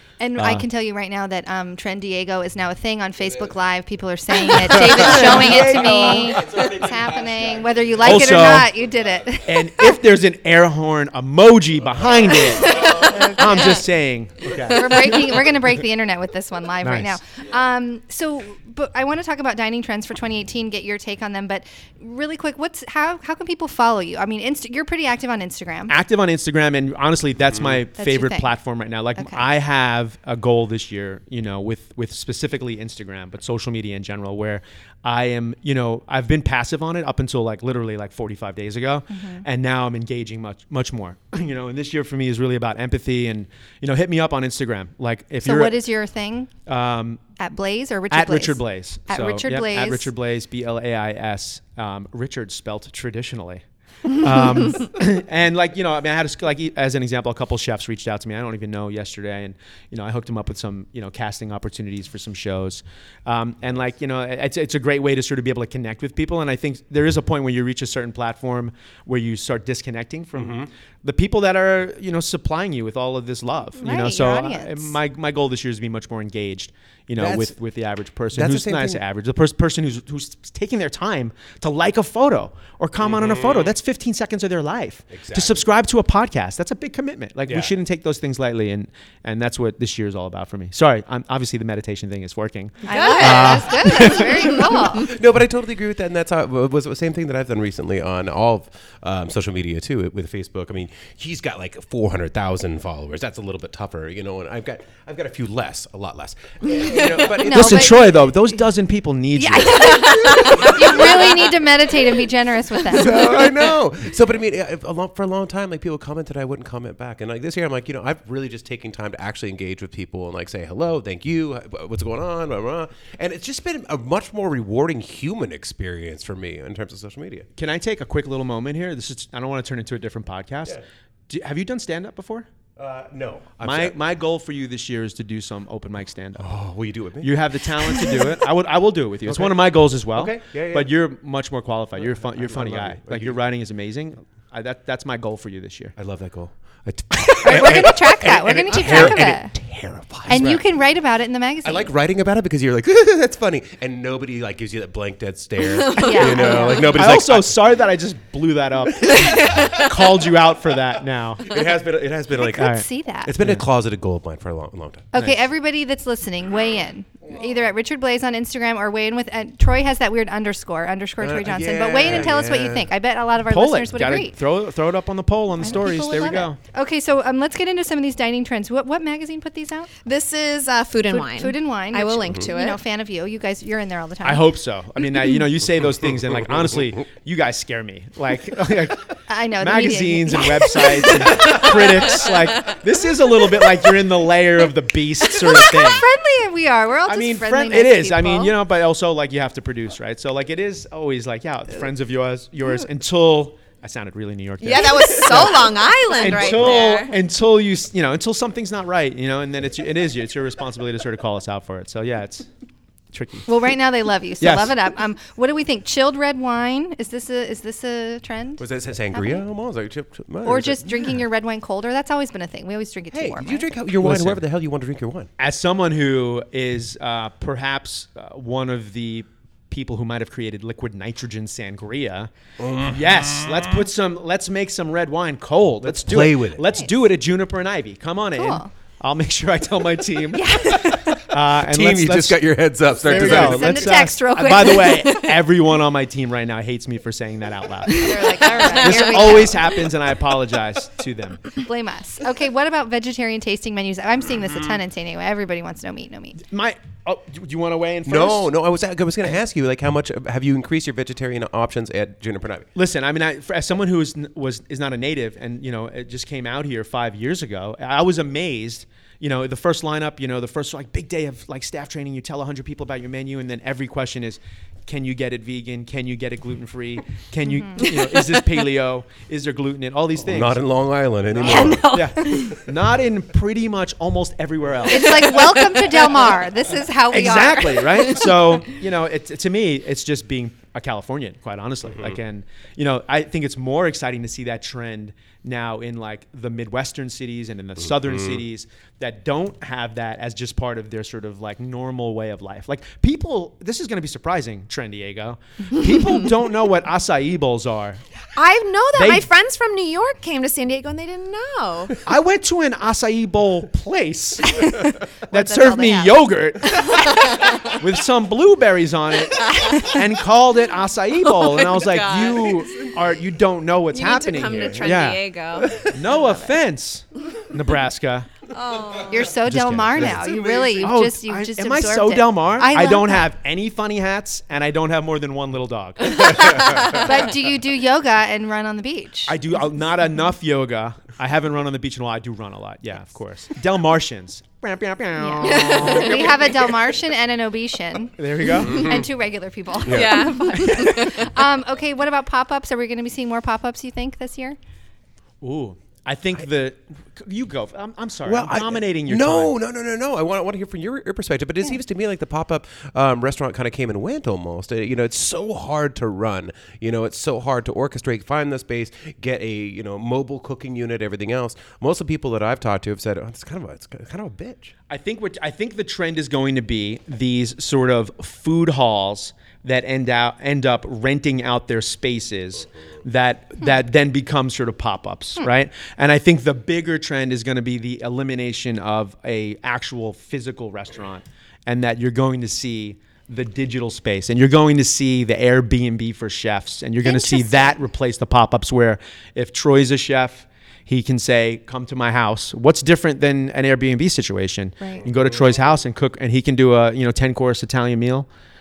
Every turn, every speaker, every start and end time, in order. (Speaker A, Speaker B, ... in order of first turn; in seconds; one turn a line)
Speaker A: 0.2-10.0
Speaker B: 0.4-0.6
Speaker B: 4.5-6.7
Speaker C: 4.9-5.8
Speaker C: 6.3-7.1
Speaker B: 8.0-8.7
Speaker C: 8.1-8.6
Speaker B: 9.5-15.4
Speaker A: 13.0-13.4
Speaker A: 14.6-25.9
Speaker B: 16.8-17.2
Speaker B: 25.9-45.8
Speaker C: 27.5-27.8
Speaker A: 28.0-28.5
Speaker A: 29.1-29.4
Speaker A: 39.1-39.4
Speaker A: 45.4-46.5
Speaker B: 46.6-47.2
Speaker A: 47.4-50.1
Speaker B: 48.1-94.7
Speaker C: 70.3-70.7
Speaker A: 73.8-75.0
Speaker C: 77.2-77.5
Speaker C: 78.3-79.0
Speaker C: 83.0-83.7
Speaker C: 85.1-85.6
Speaker C: 87.5-87.7
Speaker A: 92.8-95.1
Speaker D: 92.9-94.5
Speaker C: 94.0-108.1
Speaker A: 107.2-108.2
Speaker B: 107.4-110.3
Speaker A: 109.4-113.4
Speaker D: 109.9-110.8
Speaker C: 110.3-111.2
Speaker C: 112.9-127.5
Speaker B: 127.5-132.5
Speaker C: 132.8-134.0
Speaker B: 133.6-136.5
Speaker C: 136.4-138.2
Speaker B: 137.2-145.9
Speaker C: 139.2-140.9
Speaker C: 142.4-143.4
Speaker C: 145.9-150.6
Speaker A: 147.4-149.5
Speaker B: 147.5-147.9
Speaker B: 148.9-149.1
Speaker A: 150.3-151.9
Speaker C: 151.6-157.7
Speaker D: 155.7-156.6
Speaker A: 156.0-156.9
Speaker B: 156.2-161.6
Speaker C: 159.0-159.7
Speaker D: 159.4-159.8
Speaker C: 161.4-165.1
Speaker A: 162.5-163.3
Speaker B: 162.6-162.8
Speaker B: 163.4-163.6
Speaker A: 165.1-174.3
Speaker C: 171.2-172.9
Speaker B: 173.5-176.6
Speaker A: 175.6-179.9
Speaker D: 180.0-182.8
Speaker A: 181.1-184.4
Speaker B: 184.2-196.0
Speaker A: 189.3-191.7
Speaker D: 191.2-192.4
Speaker A: 195.4-198.6
Speaker B: 197.1-212.5
Speaker D: 204.6-207.1
Speaker B: 213.1-213.5
Speaker A: 213.4-219.4
Speaker B: 214.4-214.7
Speaker C: 218.6-220.9
Speaker A: 220.4-223.7
Speaker C: 223.1-225.3
Speaker B: 224.0-224.4
Speaker B: 225.4-232.3
Speaker C: 232.6-233.8
Speaker B: 232.8-251.5
Speaker C: 235.8-236.7
Speaker A: 238.4-238.7
Speaker A: 240.3-241.2
Speaker C: 241.5-244.0
Speaker A: 243.1-245.1
Speaker A: 247.9-249.7
Speaker D: 247.9-249.4
Speaker A: 251.6-256.4
Speaker B: 256.4-258.5
Speaker C: 258.1-262.7
Speaker B: 262.7-280.6
Speaker A: 277.4-277.8
Speaker C: 280.2-282.4
Speaker B: 281.3-285.5
Speaker D: 281.5-282.3
Speaker A: 281.6-282.4
Speaker A: 284.9-288.2
Speaker B: 287.1-308.0
Speaker C: 297.9-298.4
Speaker D: 308.4-312.0
Speaker B: 308.9-309.3
Speaker B: 312.0-325.2
Speaker A: 315.3-316.2
Speaker D: 317.0-317.6
Speaker D: 319.4-320.0
Speaker D: 321.2-322.9
Speaker D: 323.9-326.4
Speaker B: 325.8-328.3
Speaker D: 328.5-329.3
Speaker A: 329.1-333.3
Speaker C: 329.4-330.6
Speaker B: 329.5-330.2
Speaker D: 330.1-330.9
Speaker B: 330.8-337.3
Speaker A: 336.9-339.4
Speaker B: 339.3-346.5
Speaker A: 345.2-354.6
Speaker D: 345.4-346.7
Speaker B: 348.2-348.9
Speaker C: 348.6-349.1
Speaker C: 349.9-350.2
Speaker D: 349.9-351.3
Speaker B: 355.4-359.5
Speaker C: 358.2-374.7
Speaker B: 374.9-408.3
Speaker A: 397.0-397.8